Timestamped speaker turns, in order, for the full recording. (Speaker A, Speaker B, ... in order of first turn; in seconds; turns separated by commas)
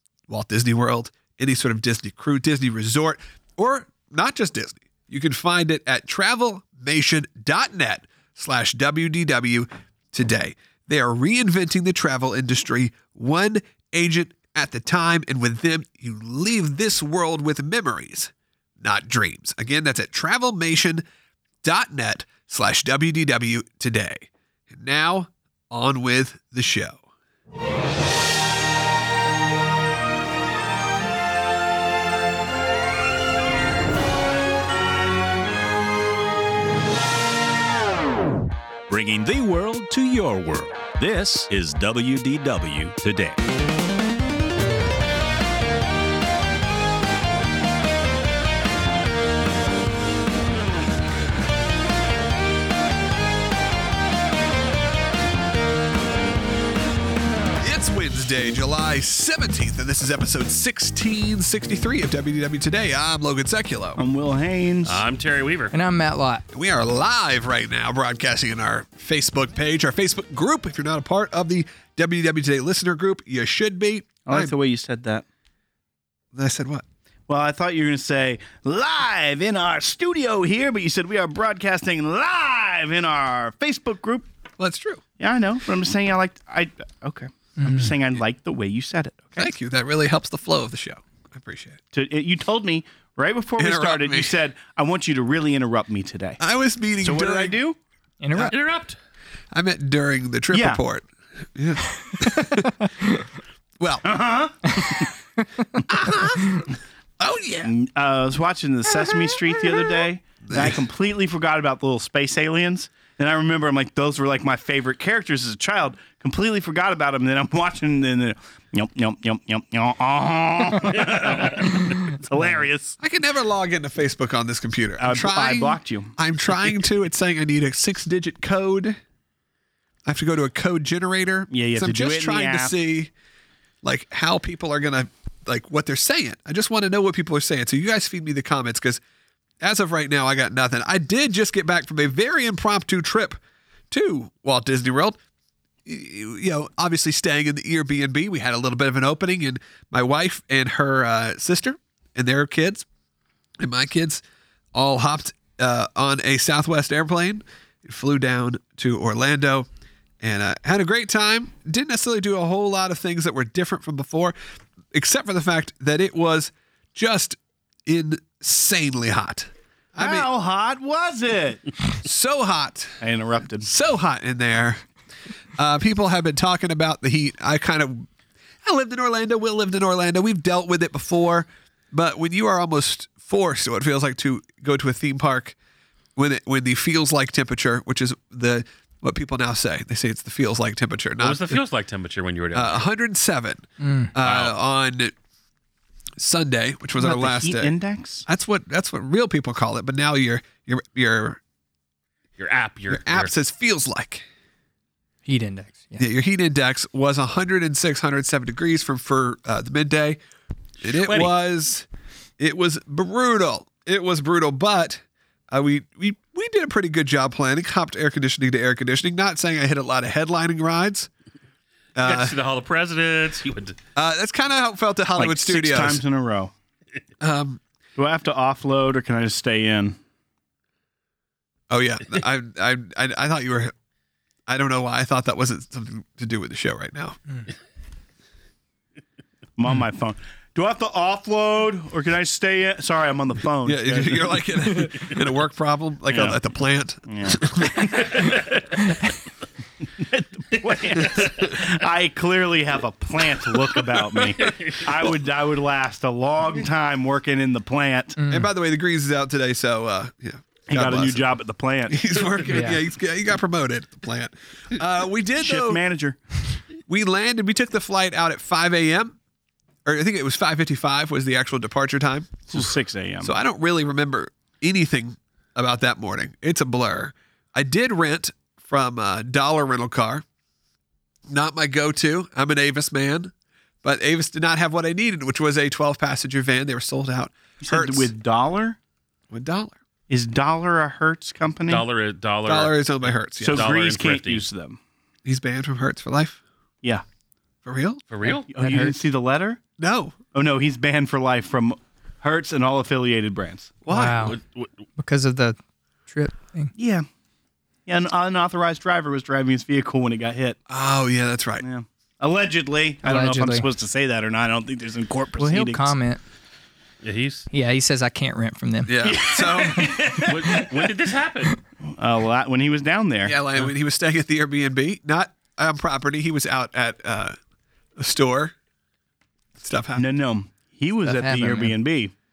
Speaker A: 0.3-21.0, Speaker A: 21.6-27.0, Speaker B: 38.9-43.4, Speaker A: 57.6-64.0, Speaker C: 64.0-65.0, Speaker D: 64.8-65.7, Speaker E: 65.7-66.4, Speaker A: 66.5-74.5, Speaker C: 74.2-75.2, Speaker A: 76.3-76.8, Speaker C: 77.3-84.3, Speaker A: 84.6-85.0, Speaker C: 85.2-89.5, Speaker E: 87.6-87.9, Speaker A: 89.3-91.8, Speaker C: 91.9-96.4, Speaker A: 93.6-94.3, Speaker A: 96.4-97.6, Speaker C: 97.0-97.8, Speaker E: 98.2-98.5, Speaker D: 98.5-99.0, Speaker A: 99.5-102.7, Speaker C: 100.5-100.8, Speaker E: 102.2-102.7, Speaker A: 103.8-104.1, Speaker C: 104.0-105.0, Speaker E: 104.7-105.0, Speaker A: 105.8-106.6, Speaker A: 107.2-107.7, Speaker C: 107.6-123.0, Speaker A: 110.5-110.8, Speaker A: 123.0-129.0, Speaker C: 125.0-126.2, Speaker A: 130.1-133.1, Speaker C: 131.5-132.7, Speaker A: 133.8-139.0, Speaker A: 139.6-143.4, Speaker A: 143.9-145.2, Speaker A: 145.8-152.8, Speaker A: 153.6-154.2, Speaker A: 154.7-159.7, Speaker A: 160.2-164.3, Speaker A: 164.9-170.3, Speaker C: 170.0-171.6, Speaker A: 172.0-173.0, Speaker C: 173.0-173.7, Speaker A: 173.6-174.8, Speaker A: 175.5-178.1, Speaker A: 178.6-185.6, Speaker A: 186.2-191.6, Speaker D: 191.2-192.8, Speaker A: 192.5-195.1, Speaker E: 193.8-194.1, Speaker D: 194.2-194.5, Speaker A: 196.2-197.7, Speaker C: 197.0-198.2, Speaker A: 198.2-201.4, Speaker D: 202.4-203.3, Speaker A: 202.9-204.2, Speaker E: 205.2-206.0, Speaker A: 206.0-210.2, Speaker A: 210.8-211.8, Speaker D: 210.8-211.3, Speaker A: 212.4-221.1, Speaker A: 221.9-222.3, Speaker D: 222.0-223.8, Speaker A: 223.9-226.0, Speaker C: 225.2-226.5, Speaker A: 227.2-227.6, Speaker C: 227.9-230.0, Speaker A: 231.7-233.7, Speaker A: 234.5-237.2, Speaker C: 239.6-244.5, Speaker A: 243.6-248.3, Speaker C: 247.1-248.2, Speaker C: 249.9-258.2, Speaker D: 254.4-254.9, Speaker E: 258.2-258.5, Speaker A: 258.3-261.3, Speaker C: 260.7-262.0, Speaker A: 261.9-265.8, Speaker E: 262.5-262.8, Speaker C: 265.4-266.2, Speaker A: 266.9-269.2, Speaker A: 269.9-272.5, Speaker C: 272.5-273.3, Speaker A: 273.2-280.2, Speaker A: 281.3-283.3, Speaker A: 283.8-288.1, Speaker C: 287.6-288.8, Speaker A: 289.3-289.8, Speaker C: 290.1-291.8, Speaker D: 291.7-294.4, Speaker A: 292.4-293.7, Speaker C: 293.4-294.8, Speaker A: 295.2-296.4, Speaker A: 297.6-298.0, Speaker D: 298.1-298.5, Speaker E: 298.2-298.9, Speaker C: 298.5-299.6, Speaker A: 299.8-300.1, Speaker C: 300.3-303.7, Speaker A: 303.9-304.3, Speaker E: 303.9-304.4, Speaker D: 304.2-304.7, Speaker E: 305.0-305.6, Speaker E: 306.1-306.7, Speaker C: 306.7-307.1, Speaker C: 307.9-310.6, Speaker A: 310.7-311.6, Speaker C: 311.6-315.9, Speaker E: 313.0-313.7, Speaker E: 315.4-316.2, Speaker D: 317.0-317.5, Speaker E: 317.5-318.9, Speaker A: 318.9-319.9, Speaker C: 319.0-320.9, Speaker E: 319.6-320.0, Speaker D: 320.2-321.6, Speaker C: 321.8-323.4, Speaker A: 323.2-327.4, Speaker A: 328.0-328.5, Speaker A: 329.6-330.1, Speaker C: 329.9-332.1, Speaker E: 331.1-331.7